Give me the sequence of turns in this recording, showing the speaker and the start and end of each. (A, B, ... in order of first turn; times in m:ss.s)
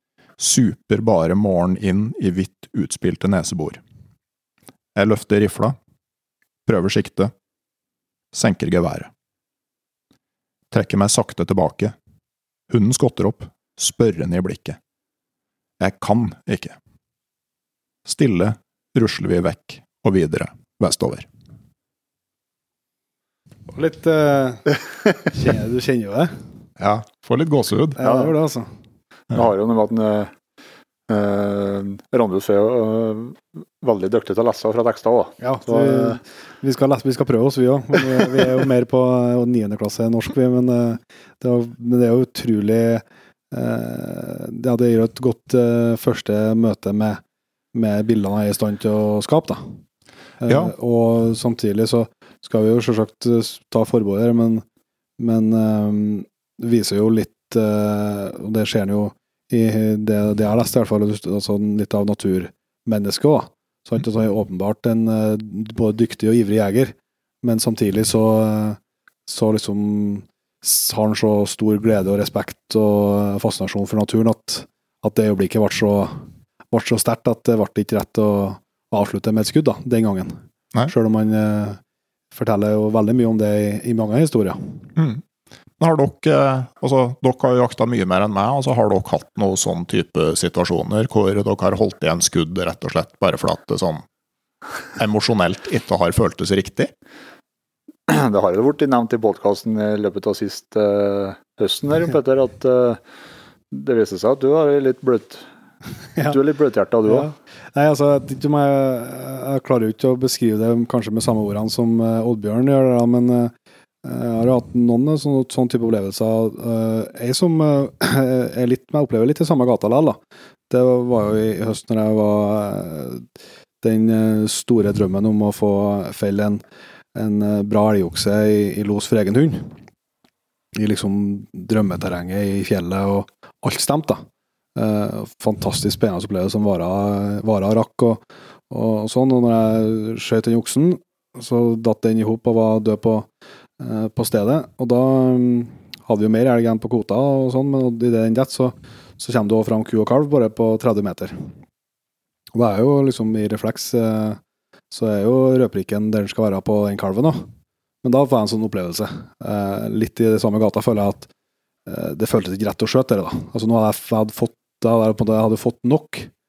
0:00.4-0:03.8 A
0:05.0-0:05.8 A
0:06.7-0:07.3 A
0:08.3-0:09.1 A
0:10.7-0:12.0 A
0:12.7-0:14.8 A
0:15.8-0:16.8 A
0:18.1-0:21.3 A
0:23.7-0:26.3 B
0:26.8-0:28.0 A
0:28.0-0:28.7 B
0:28.0-0:28.3 C
0:29.3-0:30.3 C
0:31.1-0:36.2 C
0:35.4-0:47.2 B
0:47.7-0:49.7 B
0:50.4-0:54.6 B
0:50.5-0:50.7 A
0:55.2-1:21.8 B
1:22.3-1:24.8 B
1:25.0-1:25.2 A
1:25.8-1:34.0 A
1:35.0-1:36.9 A
1:38.1-1:43.0 C
1:43.7-1:45.5 C
1:46.3-1:47.3 C
1:47.1-2:00.2 B
2:00.7-2:03.3 B
2:03.8-2:06.6 B
2:07.2-2:09.8 B
2:10.8-2:14.2 B
2:14.8-2:23.3 B
2:23.8-2:31.4 B
2:32.5-2:34.4 B
2:34.9-2:37.5 B
2:38.0-2:41.3 B
2:41.9-2:46.3 B